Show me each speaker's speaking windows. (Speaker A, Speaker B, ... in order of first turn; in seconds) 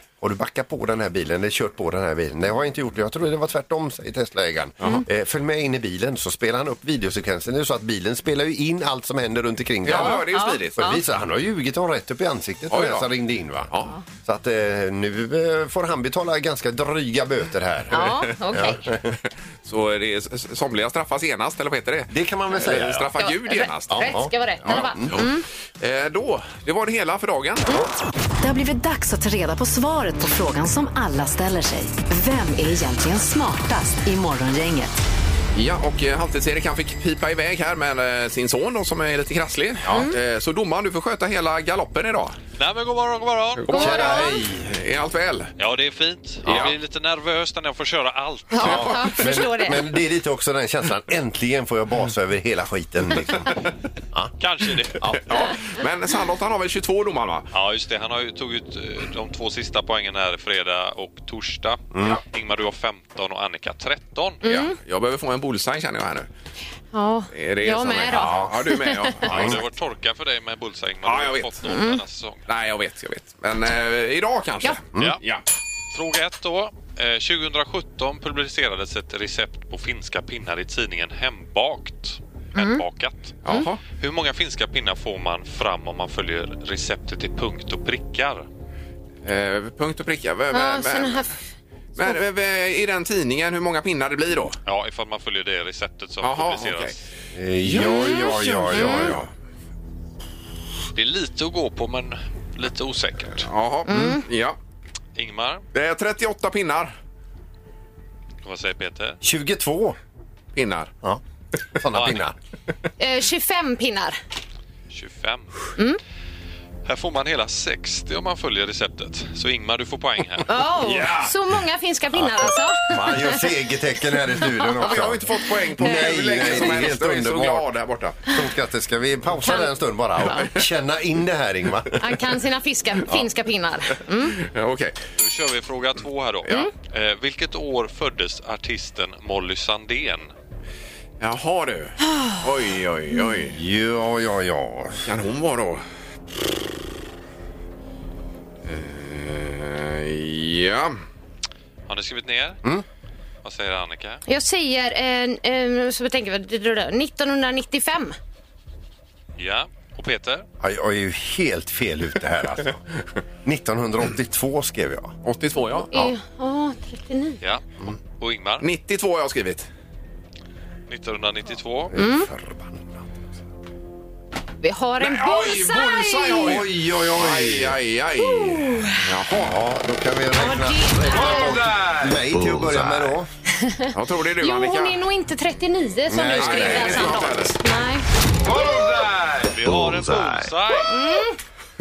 Speaker A: 0.2-19.1, 22.1-23.1, 23.9-25.2, 43.7-44.7, 48.6-53.6, 68.1-68.5, 69.3-69.6, 97.3-99.3, 109.2-110.0, 111.8-112.3, 122.9-127.7, 128.3-132.1, 143.4-145.1, 160.6-162.8, 163.4-165.2, 171.9-173.0, 176.4-177.8, 179.3-183.3, 186.1-187.2
Speaker B: 9.8-10.8, 12.7-13.1, 19.6-27.7, 35.5-42.4, 43.6-45.5, 46.4-46.8, 55.3-57.5, 64.4-66.3, 67.3-69.6, 71.0-71.6, 72.5-75.4, 83.4-83.8, 89.2-91.3, 92.0-94.6, 96.2-97.0, 97.6-99.3, 103.4-104.6, 105.7-106.9, 110.5-110.9, 120.8-121.3, 124.8-128.2, 134.4-134.9, 141.2-143.6, 145.0-145.8, 148.6-151.0, 165.2-165.9, 168.6-169.7, 175.0-179.6, 183.9-185.0, 186.3-187.6
Speaker C: 9.9-11.0, 17.9-18.8, 23.2-25.4, 43.7-44.4, 48.5-49.8, 64.4-64.7, 66.9-69.3, 71.7-72.0, 82.5-82.8, 90.5-91.3, 97.8-98.2, 98.7-99.1, 103.9-104.2, 113.0-114.2, 120.5-123.4, 124.6-125.0, 125.8-126.5, 130.2-130.5, 132.0-134.4, 154.3-158.2, 165.9-167.4, 171.9-172.3, 174.6-176.6, 178.2-179.0, 180.4-181.6, 183.6-183.9, 184.4-188.1, 190.8-191.4
Speaker D: 28.4-35.0
Speaker E: 42.6-43.9, 45.6-48.9, 54.4-55.1, 57.5-64.4, 69.3-72.4, 75.9-88.5, 94.6-97.0, 100.9-103.5, 105.2-105.6, 108.4-109.2, 111.9-112.2, 114.9-115.6, 116.8-120.6, 135.2-140.3, 151.9-152.6, 153.4-154.2, 159.4-160.4, 168.2-168.7, 170.9-171.9, 189.5-191.0